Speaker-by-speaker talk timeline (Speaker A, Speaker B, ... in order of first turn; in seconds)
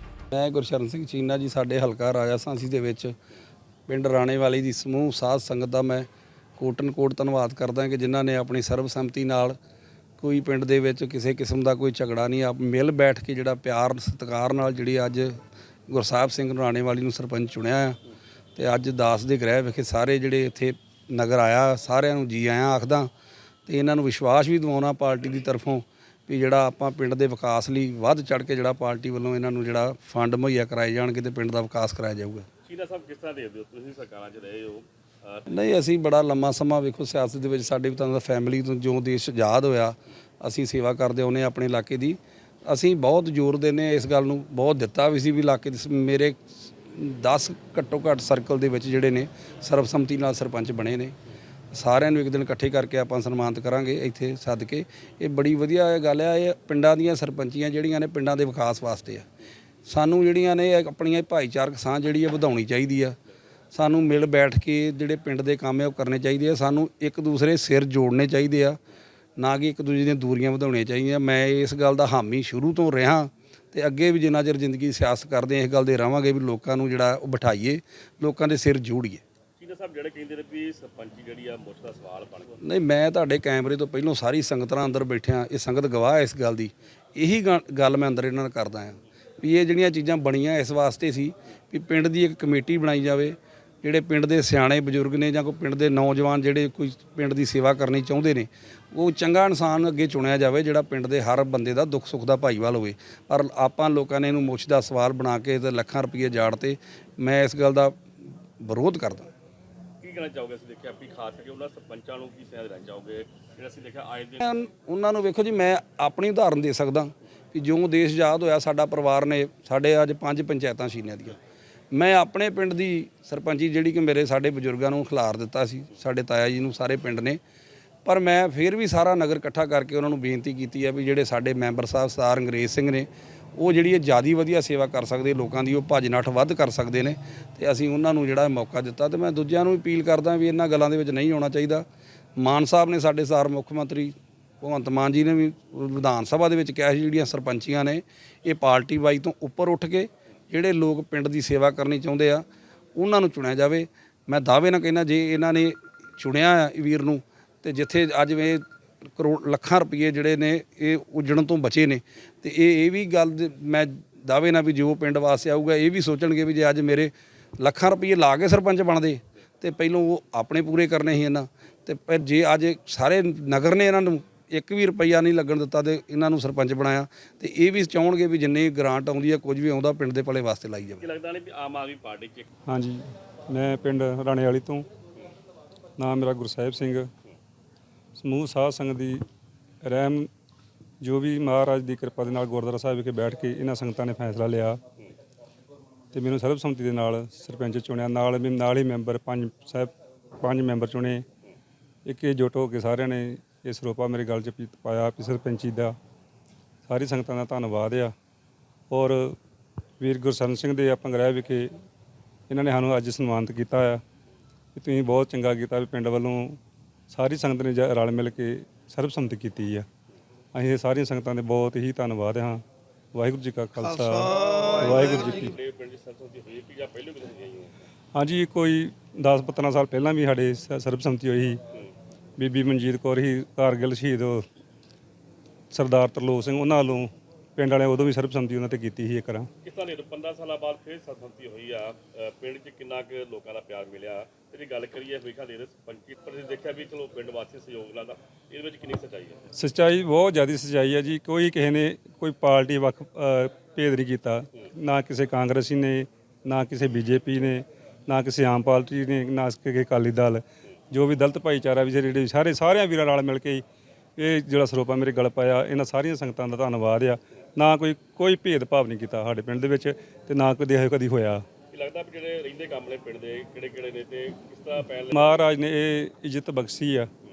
Speaker A: 0.3-3.1, 3.9-9.6, 10.2-18.0, 18.6-23.1, 23.7-32.5, 35.5-51.2, 51.7-59.3, 59.9-63.2, 63.7-68.8, 69.4-79.2, 82.6-108.0, 108.6-109.3, 114.4-121.4, 121.9-127.4, 128.1-141.9, 142.4-181.1, 224.5-225.0
Speaker B: 32.7-35.5, 79.6-82.6, 110.0-114.4, 181.0-182.5, 224.8-227.7, 239.6-249.4, 271.7-275.5
Speaker C: 182.7-184.9, 186.0-187.1, 188.2-189.2, 189.8-190.3, 191.0-194.8, 196.1-201.2, 202.1-205.9, 206.9-208.1, 208.9-209.4, 210.0-211.7, 212.5-214.0, 214.8-216.6, 217.1-219.9, 220.5-222.6, 223.1-225.5, 228.1-231.6, 232.4-234.4, 235.7-239.5, 249.5-263.6, 264.2-271.4, 275.1-277.1